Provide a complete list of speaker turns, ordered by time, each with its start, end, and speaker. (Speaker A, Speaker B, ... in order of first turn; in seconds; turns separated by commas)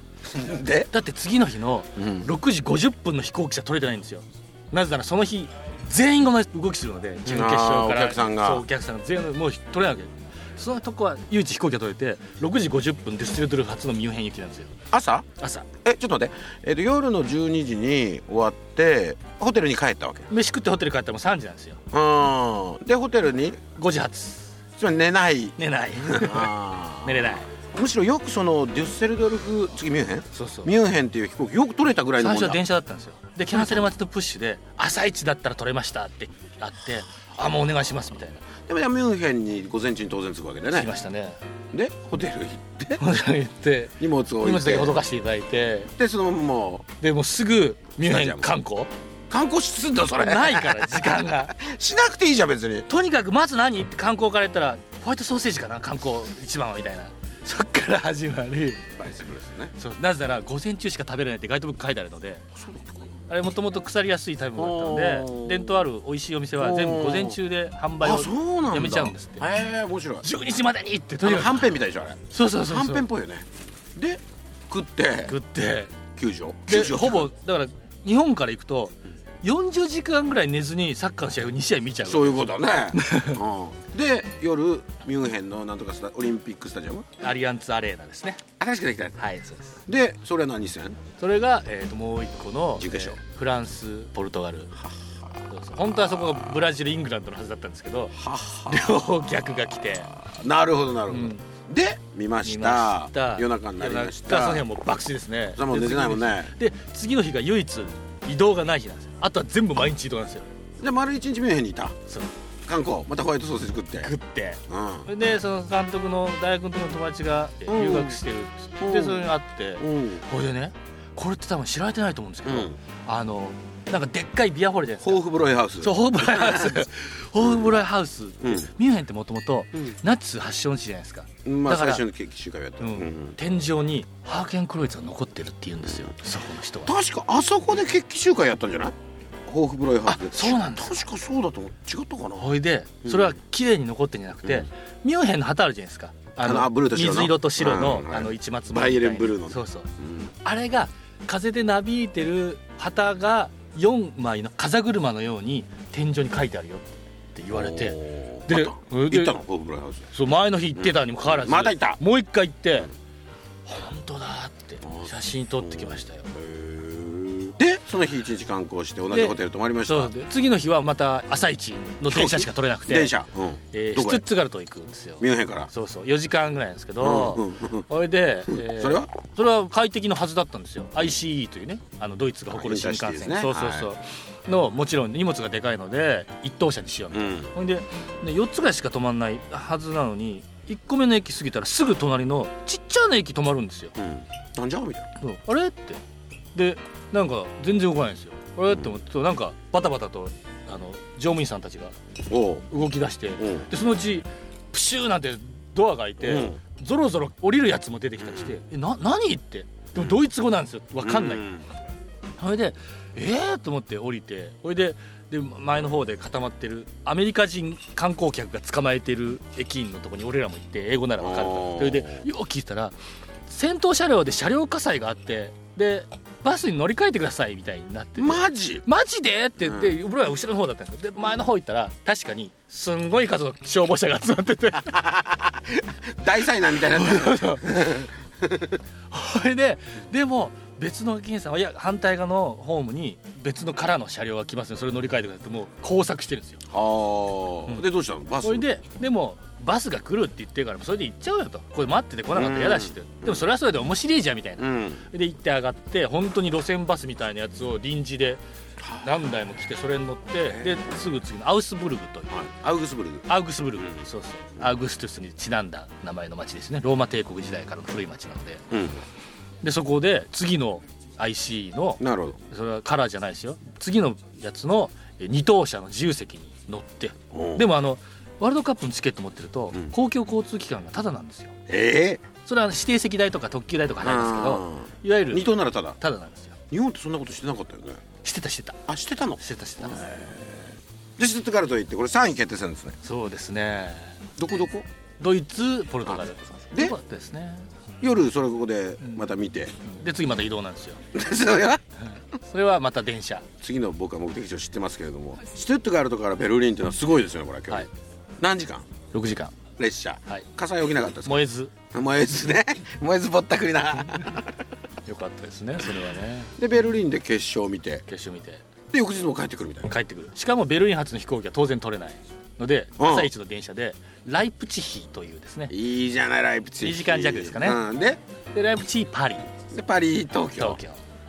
Speaker A: 0.2-0.9, Speaker B: 0.9-14.7, Speaker A: 2.0-2.3, Speaker A: 7.2-8.6, Speaker A: 14.9-15.3, Speaker B: 15.4-15.7, Speaker A: 15.8-20.3, Speaker B: 20.3-21.8, Speaker A: 21.9-23.6, Speaker B: 23.8-24.5, Speaker A: 24.8-32.6, Speaker B: 25.6-27.5, Speaker B: 30.3-30.7, Speaker B: 32.2-38.5, Speaker A: 33.5-33.9, Speaker A: 38.6-40.9, Speaker B: 40.7-41.4, Speaker A: 41.7-43.0, Speaker B: 43.0-45.9, Speaker A: 44.0-45.0, Speaker A: 46.0-46.9, Speaker B: 47.0-48.9, Speaker A: 48.0-48.5, Speaker A: 49.3-52.9, Speaker B: 50.1-51.5, Speaker B: 52.9-58.8, Speaker A: 59.0-59.7, Speaker B: 59.8-62.4, Speaker A: 62.6-63.0, Speaker B: 63.3-69.4, Speaker A: 64.6-65.8, Speaker A: 66.6-67.4, Speaker A: 68.0-70.3, Speaker B: 70.2-73.1, Speaker A: 71.2-73.4, Speaker A: 74.0-75.3, Speaker B: 75.2-75.9, Speaker A: 76.2-77.3, Speaker B: 76.7-83.4, Speaker A: 82.0-87.1, Speaker B: 87.2-88.4, Speaker A: 88.6-89.2, Speaker B: 89.2-89.8, Speaker A: 89.9-91.0, Speaker B: 91.2-94.7, Speaker A: 92.8-93.2, Speaker B: 95.5-98.2, Speaker A: 98.2-99.0, Speaker B: 98.7-100.1, Speaker A: 100.2-104.7, Speaker B: 101.1-101.4, Speaker B: 102.4-110.5, Speaker A: 105.5-106.5, Speaker A: 110.8-111.9, Speaker A: 112.7-114.1, Speaker B: 114.0-125.2, Speaker A: 114.7-115.1, Speaker A: 117.7-118.2, Speaker A: 118.8-119.3, Speaker A: 119.8-120.2, Speaker A: 122.4-122.8, Speaker A: 125.0-126.8, Speaker B: 125.8-132.0, Speaker A: 128.4-128.7, Speaker A: 131.4-133.4, Speaker B: 132.8-136.9, Speaker A: 136.8-138.9, Speaker A: 139.4-142.5, Speaker B: 140.0-141.0, Speaker B: 142.4-149.9, Speaker A: 143.0-143.3, Speaker A: 146.4-150.3, Speaker B: 150.4-159.3, Speaker A: 157.5-160.1, Speaker B: 160.1-162.9, Speaker A: 160.8-162.0, Speaker B: 163.7-166.3, Speaker A: 164.8-170.1, Speaker B: 169.1-173.2, Speaker A: 172.1-174.2, Speaker B: 173.7-193.9, Speaker A: 175.2-175.7, Speaker A: 177.0-177.8, Speaker A: 178.5-179.1, Speaker A: 182.5-183.9, Speaker A: 187.1-187.5, Speaker A: 194.0-195.1, Speaker B: 195.2-196.0, Speaker B: 196.5-201.9, Speaker A: 202.3-202.7, Speaker B: 202.7-211.6, Speaker A: 203.4-203.7, Speaker A: 206.2-206.6, Speaker A: 208.2-208.6, Speaker A: 211.0-211.6, Speaker B: 212.4-222.9, Speaker A: 221.2-222.2, Speaker B: 223.5-235.1, Speaker A: 228.2-228.8, Speaker A: 229.6-229.9, Speaker A: 235.3-238.8, Speaker B: 236.8-238.0, Speaker B: 239.1-246.6, Speaker A: 246.7-248.6, Speaker B: 248.4-258.4, Speaker A: 252.3-253.4, Speaker A: 254.6-255.0, Speaker A: 258.8-259.1, Speaker B: 259.0-262.3, Speaker A: 260.5-260.8, Speaker A: 262.3-263.3, Speaker B: 263.3-268.6, Speaker A: 263.8-264.1, Speaker A: 268.7-269.0, Speaker B: 269.6-281.5, Speaker A: 272.0-272.4, Speaker A: 277.3-277.7, Speaker A: 281.7-282.2, Speaker B: 282.4-286.6, Speaker A: 284.0-286.0, Speaker A: 286.7-288.0, Speaker B: 288.2-288.8, Speaker A: 288.9-293.0, Speaker B: 289.4-290.1, Speaker B: 293.0-294.1, Speaker A: 294.4-294.9, Speaker B: 295.2-297.7, Speaker A: 296.7-297.0, Speaker A: 298.0-299.8, Speaker B: 299.0-299.3, Speaker B: 299.8-301.0, Speaker A: 301.1-301.8, Speaker B: 302.2-303.4, Speaker A: 303.6-307.9, Speaker A: 308.4-308.9, Speaker B: 309.1-309.6, Speaker A: 309.8-314.5, Speaker B: 311.2-311.7, Speaker B: 315.1-316.5, Speaker A: 316.6-318.0, Speaker B: 318.1-318.6, Speaker A: 318.9-319.9, Speaker B: 319.9-325.7, Speaker A: 323.0-323.3, Speaker A: 325.7-328.2, Speaker B: 326.8-327.8, Speaker B: 328.5-329.5, Speaker A: 329.7-330.8, Speaker B: 330.4-331.0